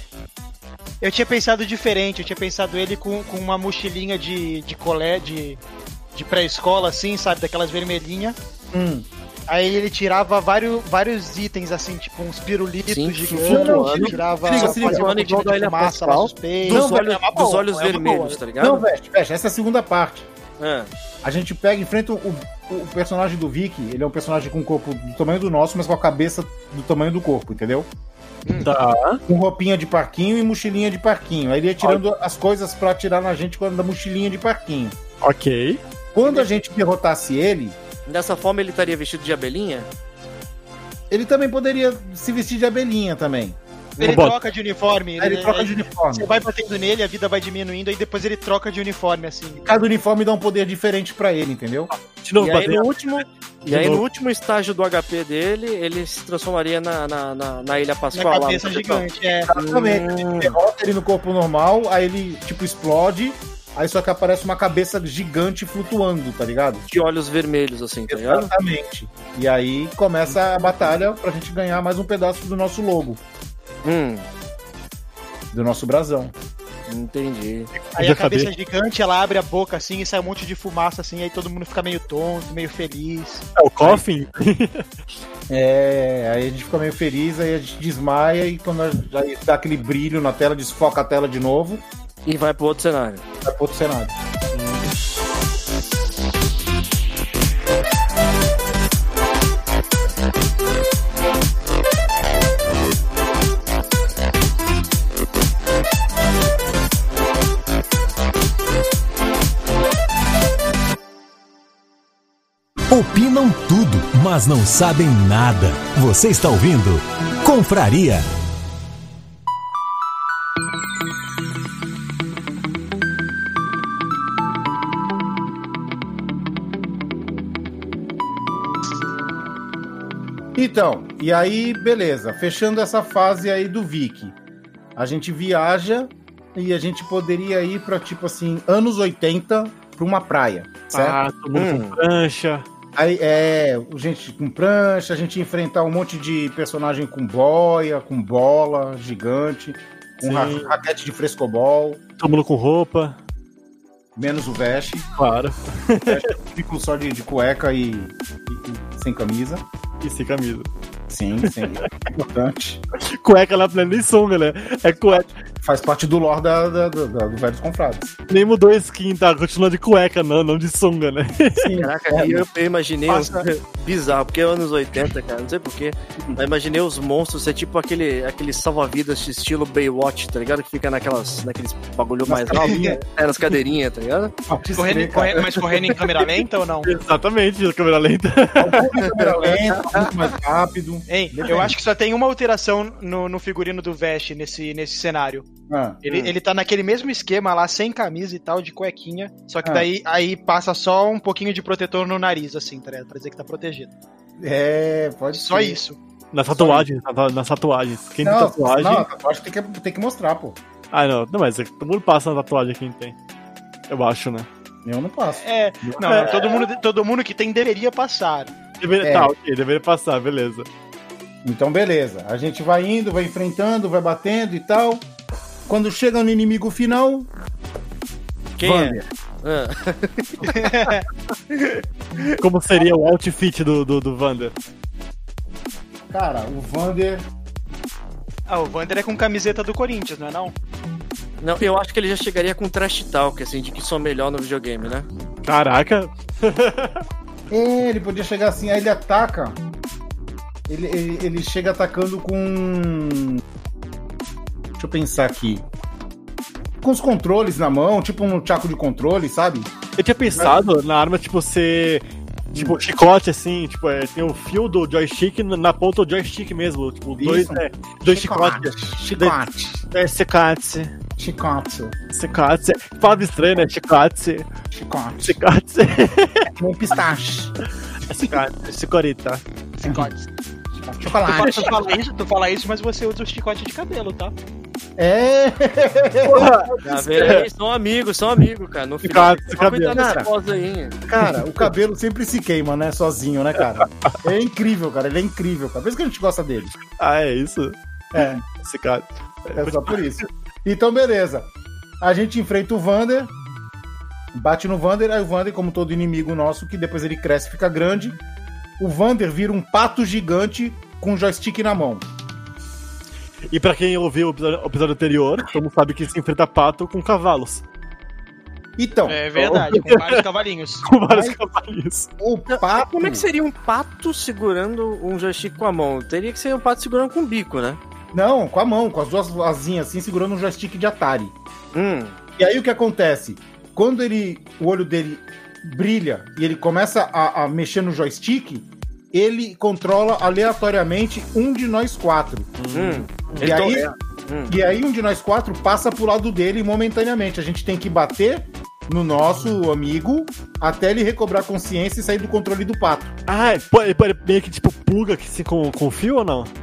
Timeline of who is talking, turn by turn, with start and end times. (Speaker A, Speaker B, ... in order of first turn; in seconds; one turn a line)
Speaker A: 1.0-5.6
Speaker A: 6.2-8.4
Speaker B: 8.7-9.1
Speaker A: 9.5-18.4
Speaker C: 12.9-18.9
Speaker B: 13.3-15.1
Speaker B: 16.7-17.1
Speaker B: 18.6-20.3
Speaker C: 20.6-20.9
Speaker B: 21.2-27.9
Speaker D: 28.6-29.2
Speaker B: 29.3-35.0
Speaker D: 35.2-35.8
Speaker B: 36.1-37.8
Speaker C: 38.1-39.9
Speaker B: 41.1-44.2
Speaker A: 44.0-49.8
Speaker D: 44.0-44.4
Speaker B: 45.2-46.3
Speaker B: 49.6-51.9
Speaker D: 51.9-53.0
Speaker C: 52.4-60.6
Speaker D: 53.6-54.0
Speaker A: 58.1-59.5
Speaker B: 59.5-66.9
Speaker C: 66.9-68.5
Speaker B: 68.1-73.2
Speaker C: 73.8-74.3
Speaker B: 75.5-76.3
Speaker C: 76.9-77.7
Speaker D: 77.7-78.5
Speaker A: 78.0-84.0
Speaker D: 83.6-84.9
Speaker B: 85.5-91.8
Speaker C: 92.3-93.2
Speaker B: 93.4-94.2
Speaker D: 94.5-94.8
Speaker E: 112.9-118.3
Speaker B: 130.6-134.4
Speaker B: 135.0-141.2
Speaker D: 140.9-142.7
Speaker C: 141.5-142.0
Speaker B: 143.0-152.0
Speaker D: 150.2-150.7
Speaker D: 152.2-153.2
Speaker B: 154.2-155.1
Speaker D: 155.2-156.3
Speaker B: 156.1-159.7
Speaker D: 160.0-160.7
Speaker B: 161.1-162.8
Speaker D: 162.9-165.3
Speaker B: 165.1-168.1
Speaker D: 168.3-171.8
Speaker B: 171.5-172.4
Speaker C: 171.8-184.3
Speaker A: 173.1-173.5
Speaker B: 182.3-183.0
Speaker A: 182.6-183.0
Speaker B: 184.5-186.0
Speaker A: 184.8-186.9
Speaker D: 186.8-188.9
Speaker B: 188.6-191.8
Speaker C: 189.0-190.1
Speaker A: 191.1-195.5
Speaker B: 195.7-196.0
Speaker A: 196.0-203.9
Speaker C: 196.1-196.3
Speaker B: 204.4-205.8
Speaker A: 205.3-206.0
Speaker D: 206.3-209.1
Speaker B: 206.5-206.9
Speaker B: 208.2-210.6
Speaker D: 210.9-213.2
Speaker D: 213.9-214.5
Speaker B: 214.8-216.4
Speaker A: 215.4-218.5
Speaker D: 216.0-216.4
Speaker D: 218.8-220.7
Speaker B: 219.0-219.3
Speaker B: 221.4-225.1
Speaker B: 225.7-227.3
Speaker C: 228.6-230.7
Speaker B: 228.6-229.0
Speaker A: 230.5-231.1
Speaker D: 232.4-234.6
Speaker B: 236.1-237.3
Speaker A: 238.5-240.6
Speaker C: 241.4-245.1
Speaker D: 245.4-247.0
Speaker B: 247.5-249.6
Speaker B: 250.7-253.4
Speaker B: 254.8-255.7
Speaker B: 256.8-259.7
Speaker D: 260.0-270.9
Speaker B: 262.5-262.8
Speaker B: 267.2-269.8
Speaker B: 271.2-272.0
Speaker D: 272.1-274.5
Speaker B: 274.7-275.4
Speaker D: 275.2-276.5
Speaker B: 276.6-277.6
Speaker D: 278.1-279.4
Speaker A: 279.8-280.2
Speaker B: 279.8-280.1
Speaker B: 280.9-281.8
Speaker A: 281.3-284.4
Speaker D: 281.4-281.7
Speaker B: 285.0-287.5
Speaker D: 286.2-287.5
Speaker C: 286.8-291.0
Speaker D: 289.0-290.0
Speaker B: 289.9-290.3
Speaker B: 291.1-296.7
Speaker D: 296.9-297.8
Speaker B: 298.1-298.4
Speaker D: 298.6-300.0
Speaker B: 299.6-303.3
Speaker B: 304.3-308.2
Speaker B: 308.8-312.1
Speaker D: 313.5-317.6
Speaker B: 318.8-319.2
Speaker A: 319.1-320.9
Speaker D: 319.4-320.2
Speaker D: 320.8-322.1
Speaker B: 321.1-321.4
Speaker B: 322.2-323.3
Speaker C: 322.5-327.8
Speaker B: 328.1-331.4
Speaker C: 331.7-332.2
Speaker B: 332.4-342.5
Speaker D: 342.6-343.5
Speaker C: 342.7-344.6
Speaker B: 343.4-343.9
Speaker B: 344.5-353.1
Speaker D: 353.3-356.5